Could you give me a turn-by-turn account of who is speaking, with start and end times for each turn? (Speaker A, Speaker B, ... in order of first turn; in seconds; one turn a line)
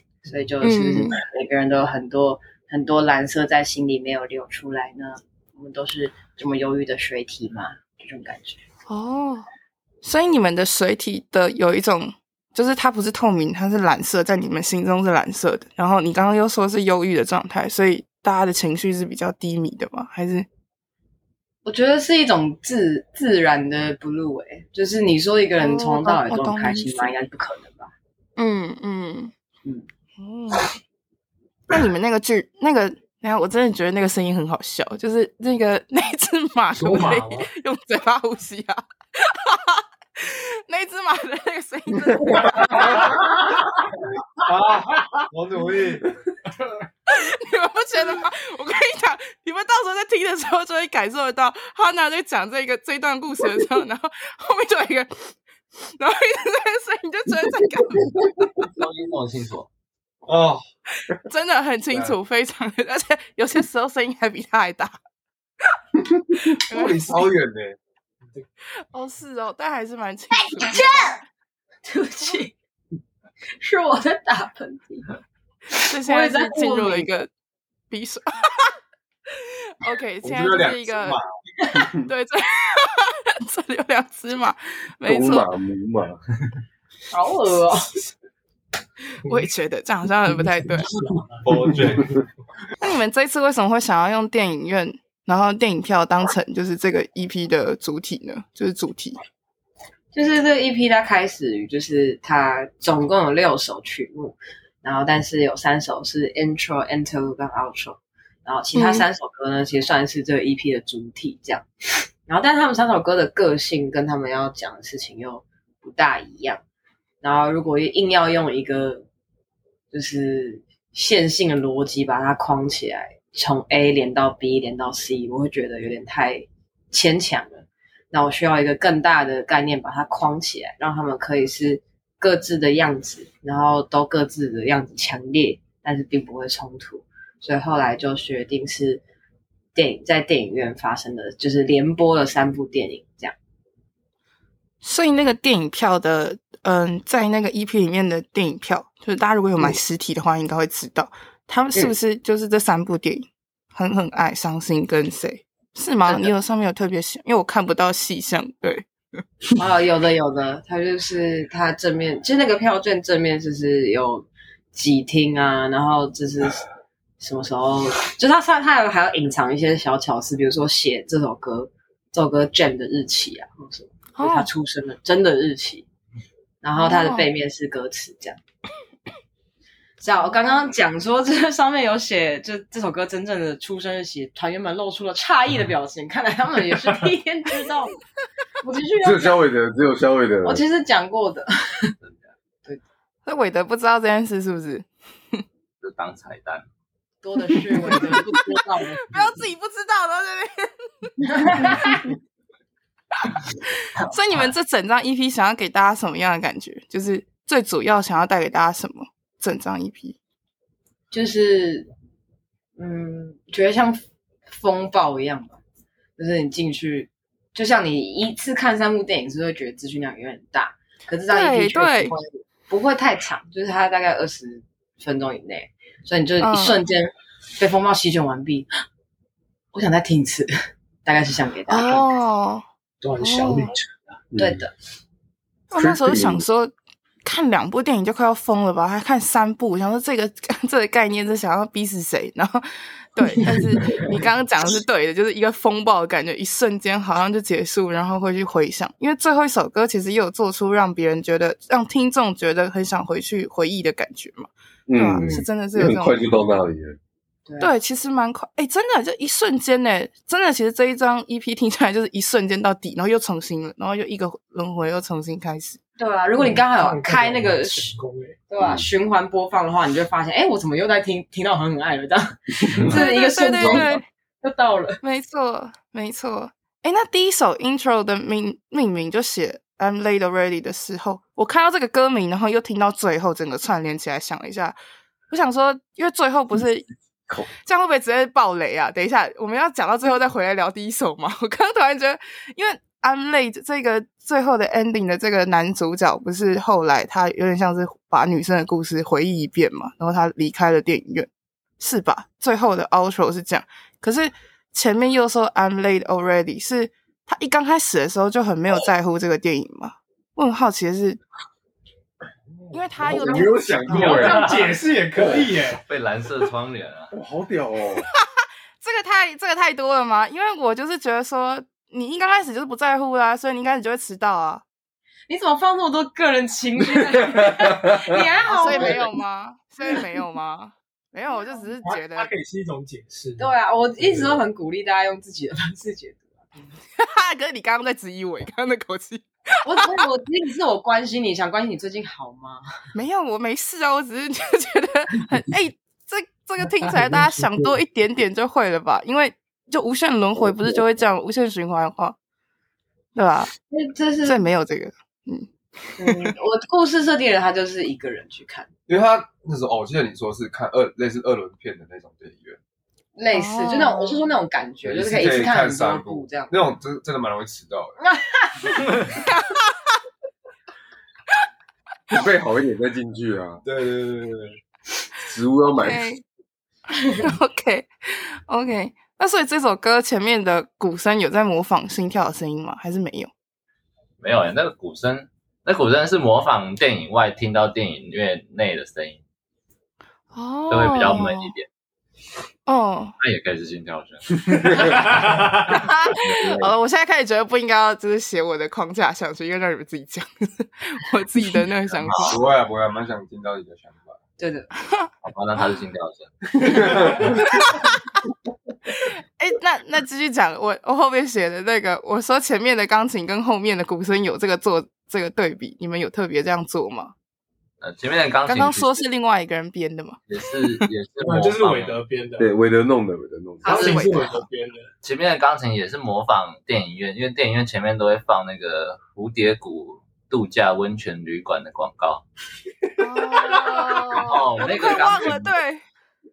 Speaker A: 0.2-8.6
Speaker B: 0.6-1.2
Speaker B: 8.9-9.5
Speaker B: 10.0-20.5
Speaker A: 21.6-27.9
Speaker B: 25.6-27.1
Speaker B: 28.4-29.3
Speaker B: 30.2-30.7
Speaker B: 31.7-42.9
Speaker C: 36.8-37.5
Speaker D: 42.6-43.1
Speaker D: 44.4-46.1
Speaker B: 47.1-58.3
Speaker E: 58.6-59.7
Speaker D: 60.3-60.6
Speaker B: 61.2-65.0
Speaker B: 66.3-67.2
Speaker D: 66.7-67.8
Speaker B: 68.9-71.2
Speaker A: 70.5-71.2
Speaker A: 71.8-72.5
Speaker A: 73.6-75.1
Speaker A: 75.8-77.1
Speaker B: 75.9-77.3
Speaker B: 77.9-78.8
Speaker B: 79.4-81.2
Speaker D: 80.2-81.3
Speaker B: 82.0-85.5
Speaker F: 85.1-86.2
Speaker A: 87.1-87.9
Speaker B: 89.3-90.9
Speaker C: 90.8-92.2
Speaker D: 91.5-92.1
Speaker B: 92.8-99.2
Speaker A: 100.1-111.7
Speaker B: 108.8-109.1
Speaker A: 112.3-116.6
Speaker A: 117.2-119.1
Speaker A: 119.9-139.0
Speaker A: 139.8-143.3
Speaker B: 144.8-158.9
Speaker A: 159.6-166.6
Speaker A: 167.2-175.9
Speaker B: 174.2-174.5
Speaker A: 176.6-178.4
Speaker B: 176.8-177.3
Speaker A: 180.0-188.0
Speaker A: 188.6-189.4
Speaker F: 189.0-190.6
Speaker A: 190.4-191.9
Speaker B: 193.3-195.4
Speaker E: 195.8-196.7
Speaker A: 197.2-199.4
Speaker B: 197.7-198.6
Speaker B: 199.1-202.0
Speaker A: 201.3-202.0
Speaker B: 204.0-210.2
Speaker A: 211.1-211.9
Speaker A: 212.8-215.6
Speaker A: 216.2-228.7
Speaker B: 221.3-222.2
Speaker B: 226.4-226.8
Speaker A: 229.7-230.5
Speaker A: 231.1-232.1
Speaker B: 231.7-232.7
Speaker C: 233.0-234.1
Speaker B: 233.2-233.7
Speaker F: 234.3-234.6
Speaker A: 234.4-234.7
Speaker B: 235.7-236.7
Speaker F: 235.7-236.4
Speaker B: 237.2-256.2
Speaker F: 254.9-257.0
Speaker B: 257.6-265.8
Speaker A: 266.0-267.9
Speaker C: 266.4-268.4
Speaker A: 268.5-275.0
Speaker B: 272.9-274.0
Speaker B: 275.0-284.8
Speaker B: 285.3-286.9
Speaker B: 287.6-301.3
Speaker B: 301.8-311.2
Speaker C: 312.6-315.8
Speaker B: 312.7-314.3
Speaker F: 313.0-315.5
Speaker E: 315.8-317.1
Speaker F: 317.1-318.1
Speaker B: 318.8-324.6
Speaker A: 325.3-329.1
Speaker F: 327.5-328.1
Speaker B: 328.5-332.3
Speaker C: 331.7-334.4
Speaker A: 333.4-336.7
Speaker B: 337.0-340.0
Speaker A: 339.6-342.6
Speaker B: 342.9-352.2
Speaker C: 347.0-347.5
Speaker B: 353.1-353.5
Speaker A: 353.7-354.4
Speaker B: 354.2-356.3
Speaker A: 356.0-358.7
Speaker D: 358.9-362.6
Speaker A: 363.2-366.5
Speaker B: 363.3-364.2
Speaker D: 364.9-368.0
Speaker A: 368.0-368.8
Speaker B: 369.1-369.9
Speaker F: 372.1-373.6
Speaker D: 373.6-374.6
Speaker F: 375.2-376.1
Speaker B: 375.8-376.2
Speaker B: 377.2-383.3
Speaker E: 384.2-389.2
Speaker B: 390.3-391.5
Speaker E: 390.7-391.7
Speaker B: 392.7-393.2
Speaker E: 393.2-396.7
Speaker C: 395.2-395.5
Speaker B: 395.7-402.4
Speaker E: 401.9-402.4
Speaker D: 402.2-404.2
Speaker A: 404.4-404.7
Speaker E: 405.2-407.1
Speaker F: 406.6-407.3
Speaker B: 407.5-408.0
Speaker B: 408.9-417.1
Speaker E: 417.8-419.0
Speaker B: 418.5-420.7
Speaker E: 420.3-422.0
Speaker C: 421.2-422.5
Speaker F: 422.4-424.0
Speaker B: 423.6-424.4
Speaker C: 423.6-424.9
Speaker E: 425.0-432.2
Speaker B: 433.0-435.8
Speaker E: 434.1-435.5